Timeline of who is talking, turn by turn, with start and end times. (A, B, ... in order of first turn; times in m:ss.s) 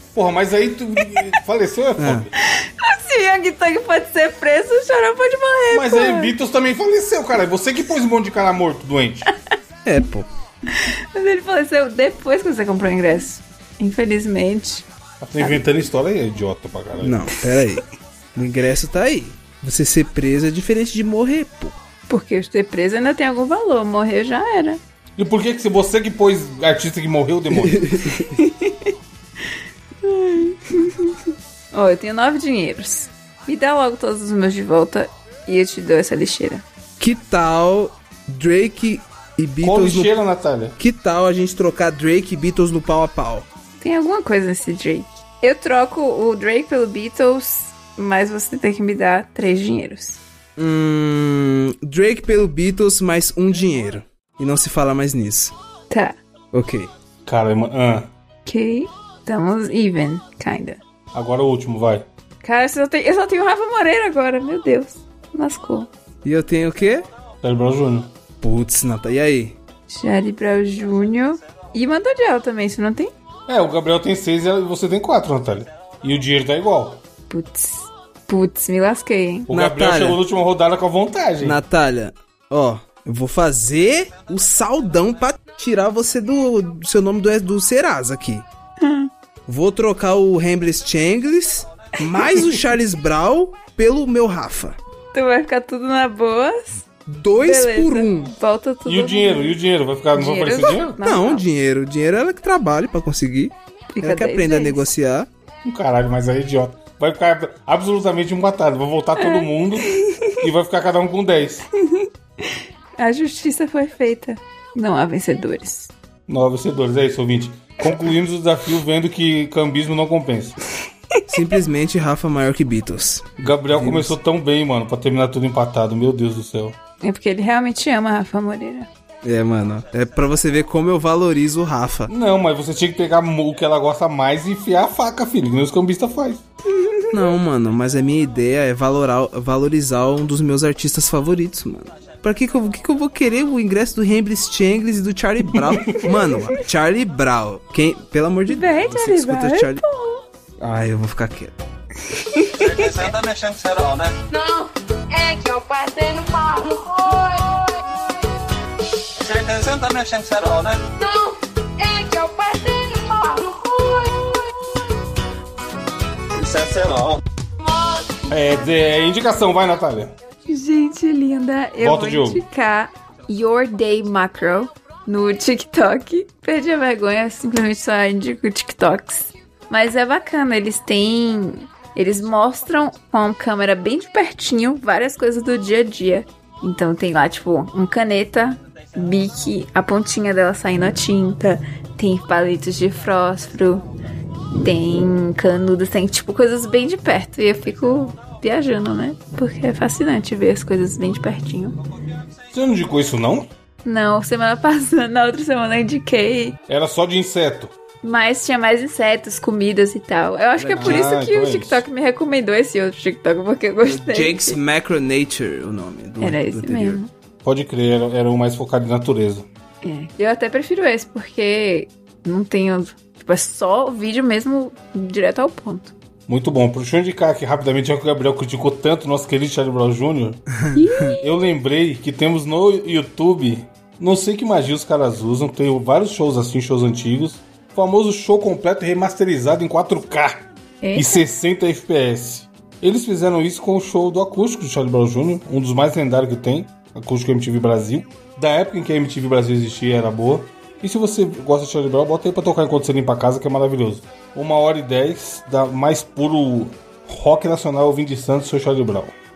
0:00.1-0:02.3 A
0:02.0-0:02.3 B
0:02.4-0:06.3 C
0:05.7-0:09.3 A
0:09.8-0:10.3 B
0:10.7-0:14.8 C
0:15.2-0:17.3 A
0:17.0-0:21.8 B
0:22.1-0:24.8 C
0:25.2-0:28.0 A
0:27.5-0:28.4 B
0:28.3-0:36.6 C
0:37.0-0:40.1 B
0:39.6-0:40.8 A
0:40.8-0:43.5 B
0:43.8-0:50.2 C
0:50.6-0:55.5 B
0:55.9-0:56.2 C
0:56.5-0:56.9 B
0:57.2-0:58.1 A
0:58.4-1:00.8 C
1:01.1-1:02.0 A
1:02.4-1:05.9 C
1:06.2-1:07.0 B
1:07.4-1:08.1 A
1:08.4-1:09.6 B
1:09.9-1:13.1 C
1:13.5-1:17.0 A
1:17.3-1:19.5 C
1:19.5-1:21.6 A
1:19.5-1:20.2 B
1:21.4-1:28.4 B
1:28.8-1:29.1 C
1:29.5-1:34.8 B
1:32.0-1:32.6 C
1:35.1-1:36.9 C
1:37.1-1:38.3 B
1:37.4-1:39.6 C
1:38.8-1:41.0 A
1:40.1-1:41.4 C
1:41.0-1:45.3 B
1:43.9-1:44.9 C
1:45.6-1:51.6 A
1:49.2-1:50.4 C
1:51.8-1:55.9 C
1:56.3-2:00.6 A
2:01.1-2:01.4 C
2:01.3-2:04.1 B
2:03.4-2:06.8 A
2:07.0-2:08.9 C
2:09.2-2:12.1 B
2:12.1-2:16.4 A
2:16.7-2:17.3 C
2:17.1-2:29.8 B
2:25.5-2:26.1 A
2:26.1-2:26.6 C
2:28.5-2:30.2 C
2:30.6-2:31.6 B
2:32.2-2:33.0 C
2:32.5-2:34.2 D
2:34.3-2:38.0 E
2:39.2-2:40.9 D
2:41.0-2:44.4 E
2:46.4-2:47.2 D
2:48.3-2:50.1 A
2:50.4-3:13.8 C
2:51.8-2:52.4 A
3:14.6-3:21.8 C
3:22.5-3:23.5 A
3:23.8-3:26.6 C
3:26.7-3:27.7 A
3:28.0-3:34.6 C
3:30.6-3:31.1 B
3:30.8-3:31.8 A
3:33.8-3:37.0 B
3:36.2-3:37.1 C
3:37.4-3:39.5 A
3:39.8-3:45.9 C
3:46.3-3:50.4 A
3:50.6-3:50.8 B
3:50.7-3:51.2 C
3:51.2-4:19.2 A
4:00.8-4:01.2 C